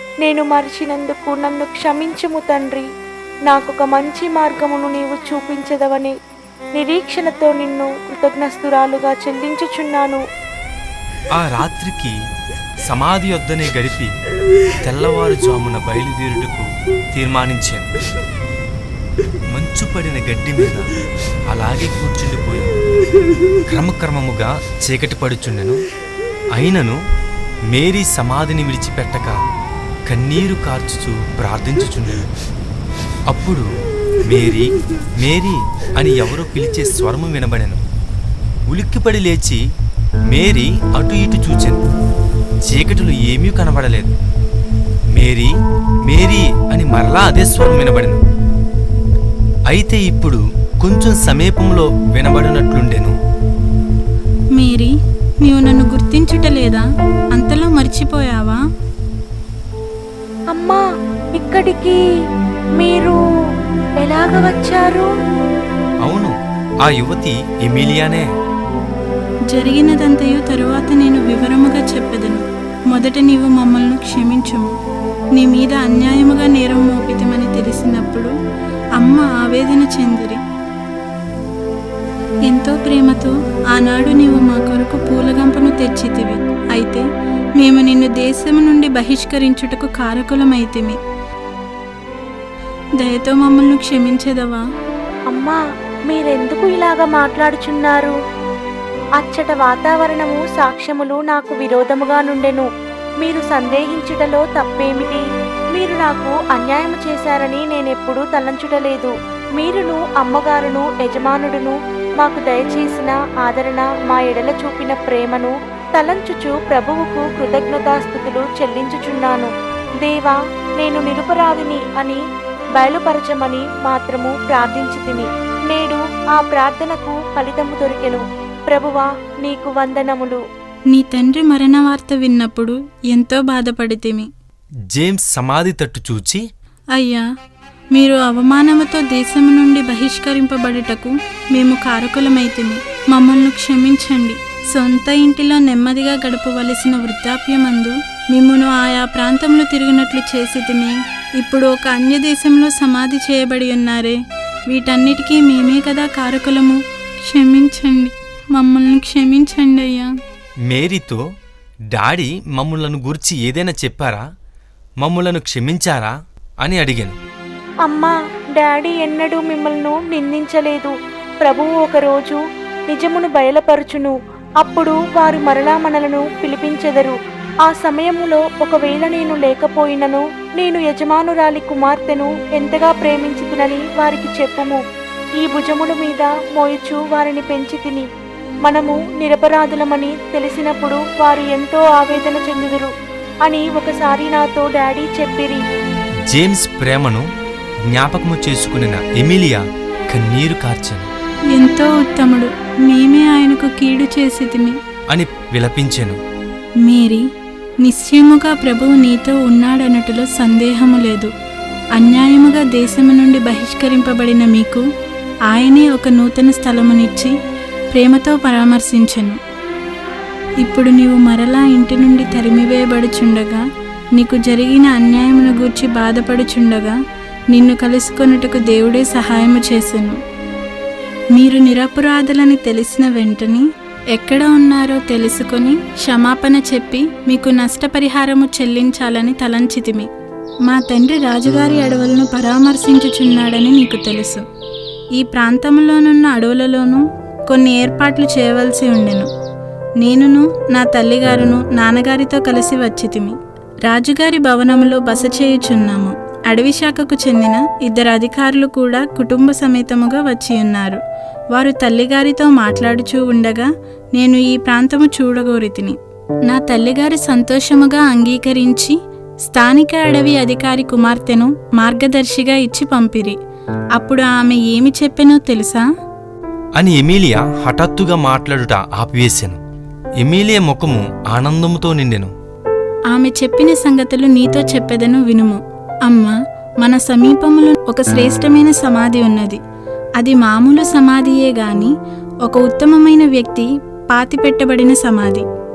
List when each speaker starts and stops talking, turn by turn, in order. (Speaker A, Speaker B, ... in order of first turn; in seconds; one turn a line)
Speaker A: 0.2-2.8
Speaker A: 3.5-6.1
Speaker A: 6.8-10.2
Speaker B: 11.3-12.1
Speaker B: 12.9-14.1
Speaker B: 14.8-17.9
Speaker B: 19.5-20.8
Speaker B: 21.5-22.7
Speaker B: 23.7-25.8
Speaker B: 26.6-26.9
Speaker B: 27.7-29.4
Speaker B: 30.1-32.2
Speaker B: 33.3-33.6
Speaker B: 34.3-34.7
Speaker B: 35.2-37.8
Speaker B: 38.7-39.6
Speaker B: 40.3-41.9
Speaker B: 42.7-44.1
Speaker B: 45.1-45.5
Speaker B: 46.0-48.2
Speaker B: 49.7-53.1
Speaker C: 54.5-58.6
Speaker A: 60.5-60.8
Speaker A: 61.4-62.0
Speaker A: 62.8-63.2
Speaker A: 64.0-65.1
Speaker B: 66.0-68.2
Speaker C: 69.5-74.7
Speaker C: 75.3-78.3
Speaker C: 79.0-80.4
Speaker C: 82.5-87.0
Speaker C: 87.6-91.0
Speaker C: 93.0-94.6
Speaker A: 95.3-98.1
Speaker A: 99.2-102.7
Speaker A: 103.2-105.2
Speaker A: 105.7-119.5
Speaker A: 120.0-122.2
Speaker A: 122.8-130.4
Speaker C: 130.9-134.3
Speaker B: 134.9-136.4
Speaker C: 136.9-137.2
Speaker C: 137.9-154.2
Speaker C: 154.7-160.1
Speaker B: 160.7-161.2
Speaker B: 161.9-164.2
Speaker B: 165.0-167.2
Speaker A: 167.8-184.8
Speaker A: 185.4-188.1
Speaker A: 188.6-192.9
Speaker A: 193.4-195.6
Speaker B: 196.3-197.2
Speaker B: 197.9-201.1
Speaker C: 201.5-204.7
Speaker B: 205.1-206.2
Speaker C: 206.8-207.2
Speaker C: 207.8-211.3
Speaker C: 211.9-214.8
Speaker C: 215.5-217.3
Speaker C: 217.9-219.4
Speaker C: 220.6-223.6
Speaker C: 224.1-226.9
Speaker C: 227.5-230.2
Speaker C: 231.3-240.1
Speaker C: 240.7-244.4
Speaker C: 245.2-249.3
Speaker C: 250.0-261.0
Speaker C: 261.5-265.9
Speaker C: 266.5-273.4
Speaker C: 273.9-275.8
Speaker B: 276.8-279.6
Speaker B: 280.2-282.3
Speaker C: 283.1-289.6
Speaker C: 290.2-291.9
Speaker C: 292.4-295.4